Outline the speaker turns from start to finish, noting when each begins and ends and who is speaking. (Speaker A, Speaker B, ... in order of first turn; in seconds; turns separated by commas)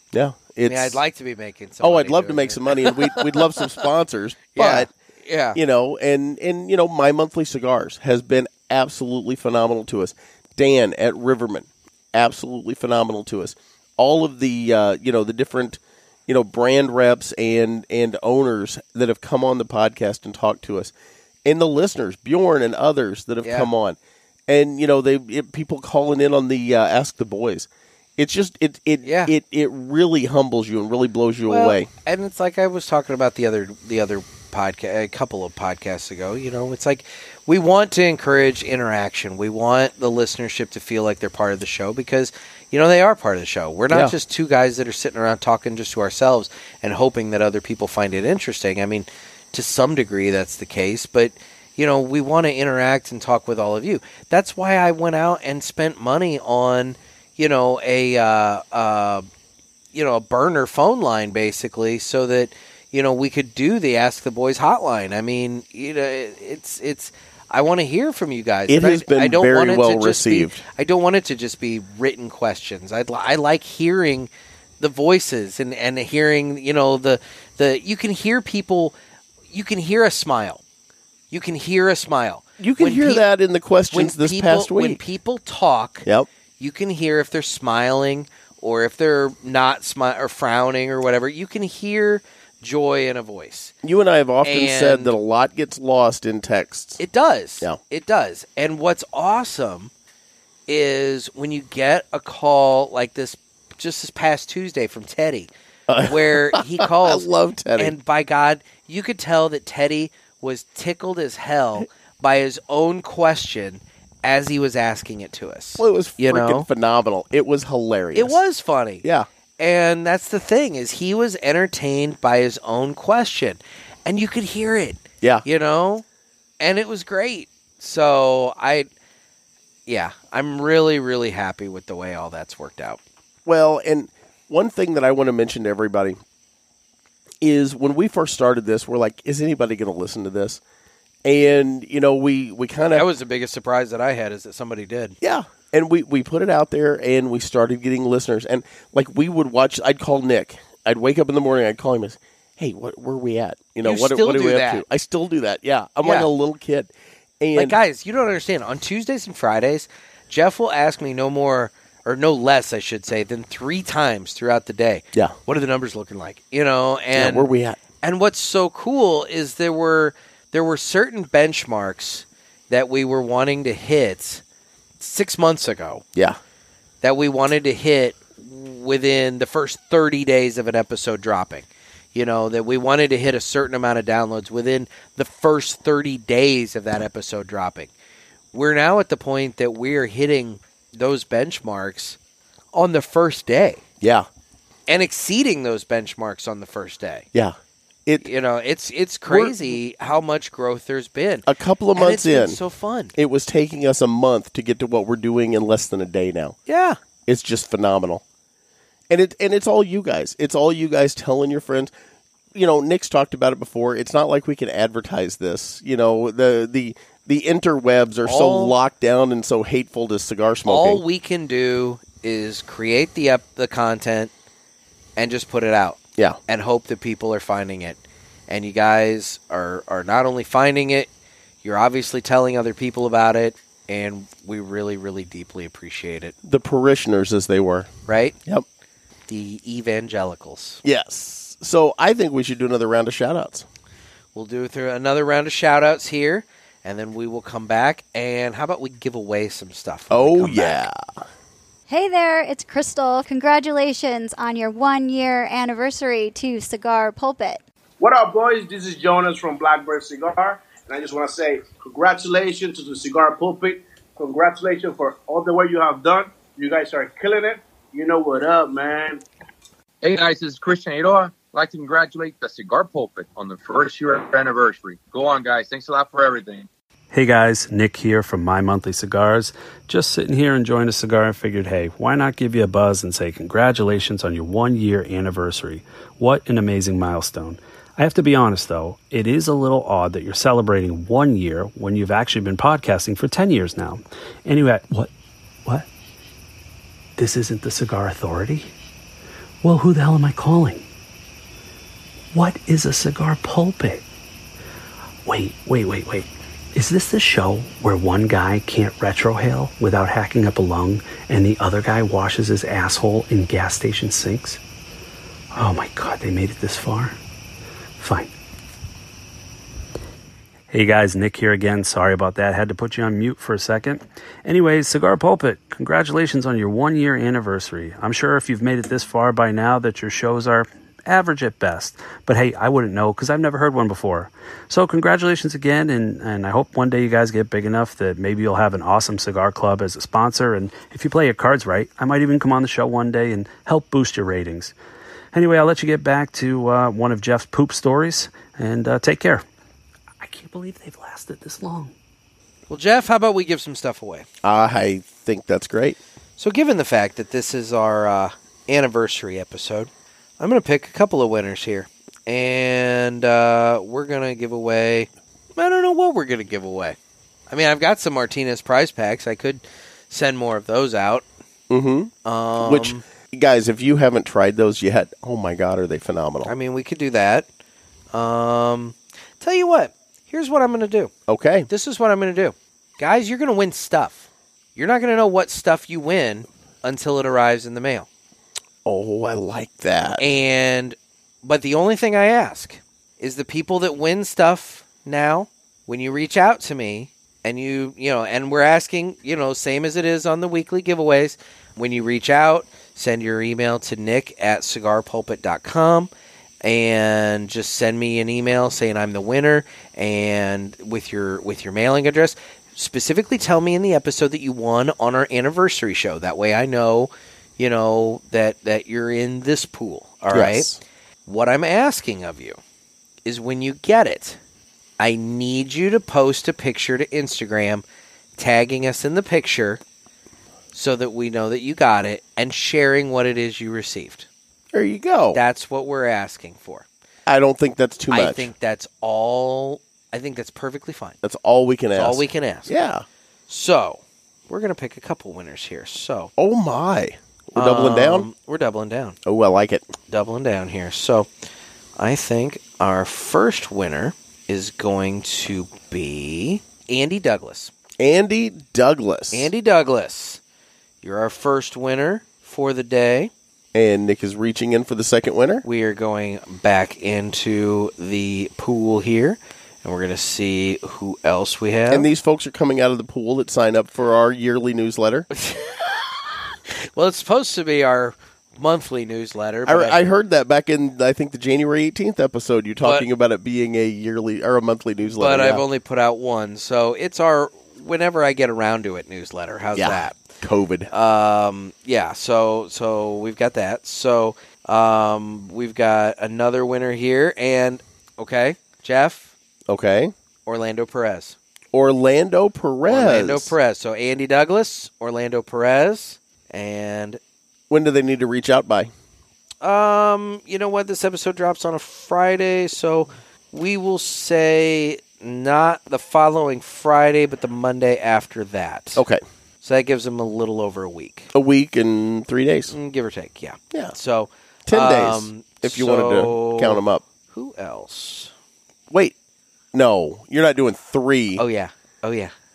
Speaker A: 0.1-1.0, Speaker B: 0.7-3.7, Speaker A: 1.8-4.9, Speaker B: 4.5-5.6, Speaker A: 5.5-20.9, Speaker A: 21.4-24.0, Speaker B: 23.4-23.7, Speaker A: 24.5-31.9, Speaker B: 29.0-29.3, Speaker B: 31.5-59.3, Speaker A: 43.9-44.1, Speaker B: 59.9-78.9, Speaker A: 68.7-70.6, Speaker B: 79.5-80.6, Speaker B: 81.3-83.2, Speaker A: 82.6-85.0, Speaker B: 83.9-86.0, Speaker B: 86.6-93.7, Speaker A: 93.8-97.0, Speaker B: 94.4-95.1, Speaker B: 97.0-99.9, Speaker B: 100.7-105.5, Speaker A: 105.9-107.9, Speaker B: 106.0-116.7, Speaker A: 115.8-118.4, Speaker B: 118.1-119.0, Speaker B: 119.6-126.0, Speaker B: 126.6-128.9, Speaker B: 129.9-133.0, Speaker A: 133.4-136.2, Speaker A: 137.4-140.6, Speaker A: 141.2-143.1, Speaker B: 142.9-145.2, Speaker A: 145.2-157.8, Speaker B: 153.8-154.8, Speaker B: 156.0-156.3, Speaker B: 157.5-167.5, Speaker A: 167.1-167.8, Speaker B: 168.0-174.4, Speaker B: 175.0-176.0, Speaker B: 177.0-187.9, Speaker B: 188.5-192.2, Speaker B: 192.7-193.8, Speaker A: 194.0-194.3, Speaker B: 194.9-197.3, Speaker A: 197.3-198.3, Speaker B: 198.2-203.1, Speaker A: 199.2-199.8, Speaker A: 201.4-202.6, Speaker A: 203.1-206.6, Speaker B: 206.7-207.0, Speaker A: 207.2-208.2, Speaker A: 209.1-211.9, Speaker A: 212.5-221.0, Speaker B: 218.2-218.7, Speaker B: 220.7-224.3, Speaker B: 225.2-231.1, Speaker B: 231.6-236.3, Speaker A: 236.4-237.9, Speaker B: 238.1-238.3, Speaker B: 239.3-240.8, Speaker A: 240.8-243.7, Speaker B: 244.3-250.8, Speaker A: 250.1-251.0, Speaker C: 251.9-257.6, Speaker D: 258.0-269.2, Speaker E: 270.0-276.7, Speaker F: 277.1-295.1, Speaker F: 297.2-298.7, Speaker F: 299.6-300.8, Speaker F: 302.3-304.0, Speaker F: 305.2-314.6, Speaker F: 315.5-317.1, Speaker F: 318.0-318.3, Speaker F: 320.7-344.7, Speaker F: 345.3-349.4, Speaker F: 350.2-351.9, Speaker B: 352.7-354.2, Speaker A: 354.4-356.0, Speaker B: 356.4-367.0, Speaker B: 367.5-371.2, Speaker A: 371.7-376.5, Speaker B: 372.2-373.0, Speaker B: 376.4-377.5, Speaker B: 378.1-381.1, Speaker A: 381.3-381.7, Speaker B: 381.7-388.1, Speaker A: 388.8-390.3, Speaker B: 390.2-406.1, Speaker B: 406.6-420.7, Speaker A: 420.3-420.8, Speaker B: 421.2-422.6, Speaker B: 423.2-424.4, Speaker B: 425.0-427.8, Speaker B: 428.4-429.8, Speaker B: 430.7-434.3, Speaker A: 434.7-435.4, Speaker B: 435.3-436.9, Speaker A: 437.2-438.5, Speaker B: 438.1-441.2, Speaker A: 441.2-443.0, Speaker B: 441.9-442.7, Speaker B: 443.5-446.3, Speaker A: 446.4-448.3, Speaker B: 447.6-449.1, Speaker A: 449.2-449.9, Speaker B: 450.1-451.3, Speaker B: 452.0-457.7, Speaker A: 458.0-459.5, Speaker B: 459.3-460.4, Speaker B: 461.0-463.3, Speaker A: 463.7-465.6, Speaker B: 465.6-472.1, Speaker A: 471.9-475.3, Speaker B: 475.4-475.8, Speaker B: 476.9-480.0, Speaker A: 479.6-485.6, Speaker B: 482.8-483.1, Speaker B: 485.1-490.2, Speaker A: 489.7-490.9, Speaker B: 490.9-499.3, Speaker A: 499.7-500.1, Speaker B: 500.4-501.4, Speaker A: 501.7-503.5, Speaker B: 502.9-507.2, Speaker A: 507.7-508.9, Speaker B: 509.6-519.0, Speaker A: 519.0-519.2, Speaker B: 519.6-521.3, Speaker A: 521.3-522.7, Speaker B: 522.7-528.3, Speaker A: 524.6-527.0, Speaker A: 529.7-531.4, Speaker B: 531.4-532.3